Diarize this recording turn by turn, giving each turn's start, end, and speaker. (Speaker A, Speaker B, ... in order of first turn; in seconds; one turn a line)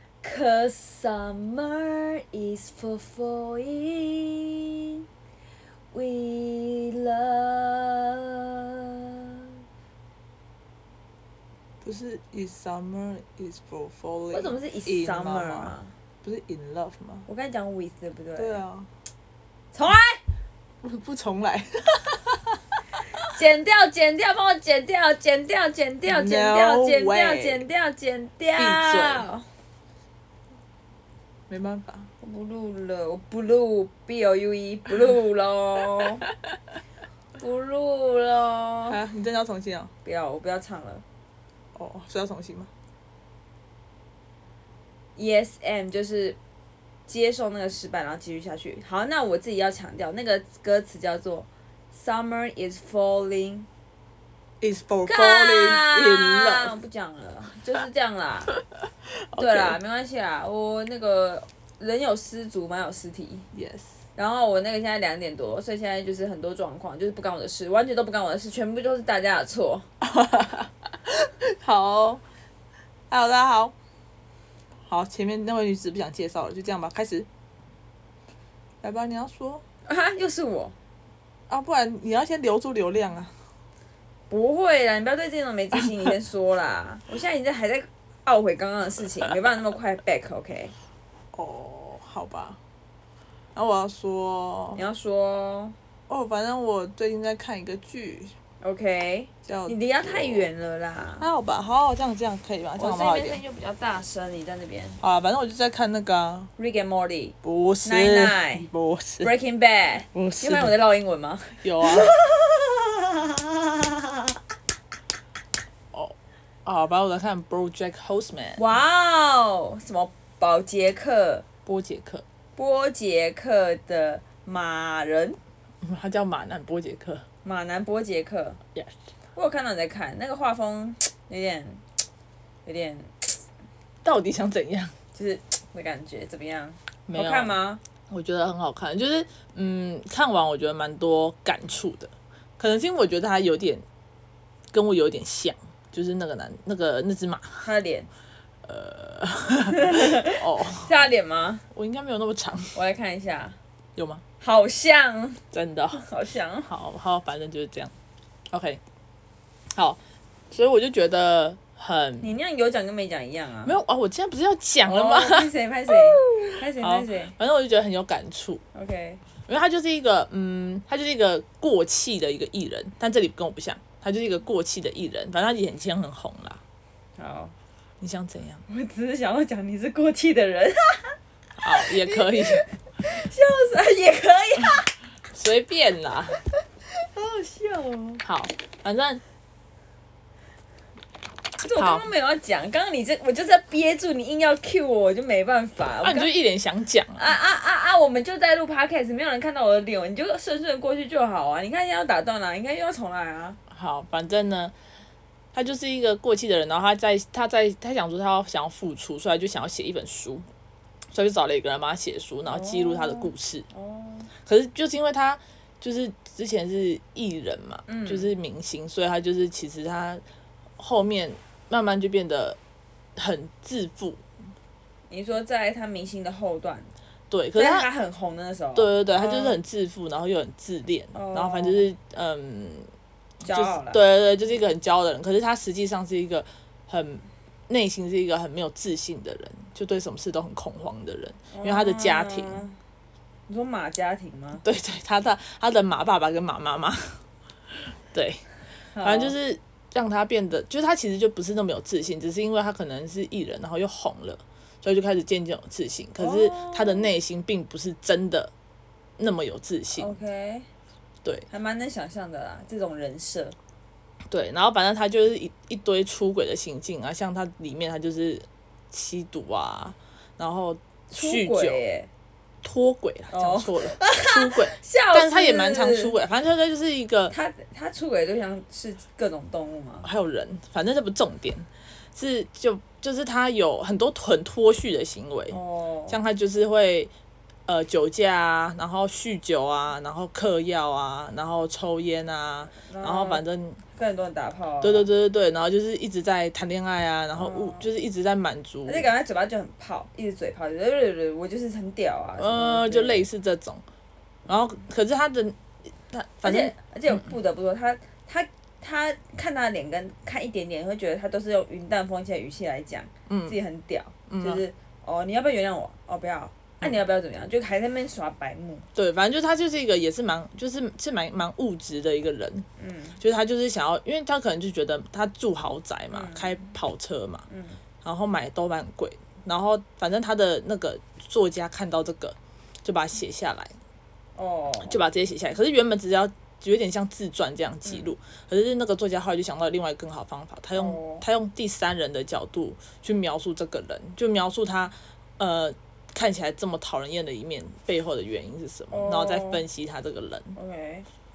Speaker A: 0.2-5.0
Speaker A: 5.9-9.4
Speaker B: 11.8-17.2
Speaker A: 14.3-15.9
Speaker A: 17.3-18.6
Speaker B: 18.4-18.9
Speaker A: 19.7-20.2
Speaker B: 20.8-22.6
Speaker A: 23.3-29.4
Speaker B: 26.1-27.6
Speaker B: 28.6-29.3
Speaker B: 31.5-32.1
Speaker A: 32.2-36.3
Speaker A: 37.4-39.0
Speaker B: 38.9-39.9
Speaker A: 40.0-41.0
Speaker B: 41.7-42.7
Speaker A: 45.1-46.4
Speaker A: 47.1-53.7
Speaker B: 54.6-56.7
Speaker A: 55.0-58.6
Speaker B: 59.3-59.8
Speaker A: 59.4-63.5
Speaker B: 63.5-63.9
Speaker A: 64.2-69.9
Speaker B: 70.0-72.2
Speaker B: 73.1-73.7
Speaker B: 74.8-77.3
Speaker B: 78.8-79.6
Speaker A: 79.8-80.7
Speaker B: 81.5-83.3
Speaker A: 84.3-90.7
Speaker B: 91.3-92.6
Speaker B: 93.5-94.8
Speaker A: 94.7-95.7
Speaker B: 96.1-98.3
Speaker A: 98.6-101.3
Speaker B: 99.5-100.5
Speaker B: 101.2-103.4
Speaker A: 102.8-105.0
Speaker B: 105.0-106.5
Speaker A: 106.6-108.7
Speaker B: 107.4-109.3
Speaker A: 109.2-114.3
Speaker B: 110.1-110.7
Speaker B: 111.6-112.1
Speaker B: 116.7-118.6
Speaker A: 118.6-121.4
Speaker B: 121.7-122.2
Speaker A: 122.5-125.4
Speaker B: 125.8-127.2
Speaker A: 127.4-128.6
Speaker A: 129.3-131.8
Speaker A: 132.6-133.3
Speaker B: 134.0-134.9
Speaker A: 135.1-137.8
Speaker B: 137.1-137.6
Speaker B: 138.1-143.8
Speaker B: 144.7-147.6
Speaker A: 147.6-148.1
Speaker B: 148.6-150.9
Speaker A: 149.7-151.6
Speaker B: 151.7-152.7
Speaker A: 152.7-153.6
Speaker B: 153.9-154.2
Speaker A: 154.4-155.4
Speaker B: 155.5-156.1
Speaker A: 155.9-156.7
Speaker B: 156.7-157.9
Speaker B: 158.5-158.8
Speaker B: 159.7-160.0
Speaker B: 160.5-162.3
Speaker A: 162.2-163.8
Speaker B: 163.6-168.6
Speaker A: 164.8-167.3
Speaker A: 168.7-169.2
Speaker B: 169.5-176.6
Speaker A: 177.2-177.5
Speaker B: 178.0-178.6
Speaker A: 178.7-181.2
Speaker B: 181.6-182.6
Speaker A: 181.8-184.9
Speaker B: 185.3-186.4
Speaker A: 187.0-188.2
Speaker B: 188.2-189.2
Speaker A: 191.6-196.3
Speaker B: 191.7-192.1
Speaker B: 196.0-197.3
Speaker A: 197.1-203.6
Speaker B: 203.7-204.7
Speaker B: 205.5-210.4
Speaker B: 211.1-213.7
Speaker A: 212.5-214.3
Speaker B: 214.4-220.2
Speaker A: 217.9-218.3
Speaker B: 220.8-222.6
Speaker B: 223.2-224.2
Speaker A: 225.1-226.9
Speaker B: 227.3-227.9
Speaker A: 227.5-229.6
Speaker B: 228.7-232.9
Speaker A: 231.1-231.8
Speaker A: 233.4-234.0
Speaker B: 233.4-242.6
Speaker A: 241.5-242.8
Speaker A: 243.5-244.6
Speaker B: 244.6-247.2
Speaker B: 248.1-248.4
Speaker A: 248.9-249.3
Speaker B: 249.0-258.5
Speaker A: 256.2-257.1
Speaker B: 259.2-260.1
Speaker A: 259.9-260.7
Speaker A: 261.5-263.6
Speaker B: 264.3-271.8
Speaker A: 271.1-272.1
Speaker B: 272.6-277.3
Speaker A: 273.3-276.1
Speaker A: 277.3-280.1
Speaker B: 280.0-285.6
Speaker A: 285.5-286.2
Speaker B: 286.1-287.1
Speaker B: 287.7-293.8
Speaker A: 292.8-295.1
Speaker B: 294.8-299.1
Speaker A: 297.3-297.9
Speaker A: 298.9-303.3
Speaker B: 302.4-303.8
Speaker B: 304.5-305.6
Speaker B: 306.1-307.3
Speaker A: 306.4-318.9
Speaker B: 313.3-313.6
Speaker B: 314.3-314.6
Speaker B: 318.9-322.6
Speaker A: 322.8-323.2
Speaker B: 323.2-327.4
Speaker A: 326.1-326.5
Speaker A: 327.5-327.8
Speaker B: 328.0-333.7
Speaker A: 334.4-335.0
Speaker B: 334.8-350.6
Speaker A: 337.9-338.1
Speaker A: 340.7-341.2
Speaker A: 348.9-349.6
Speaker A: 350.5-351.1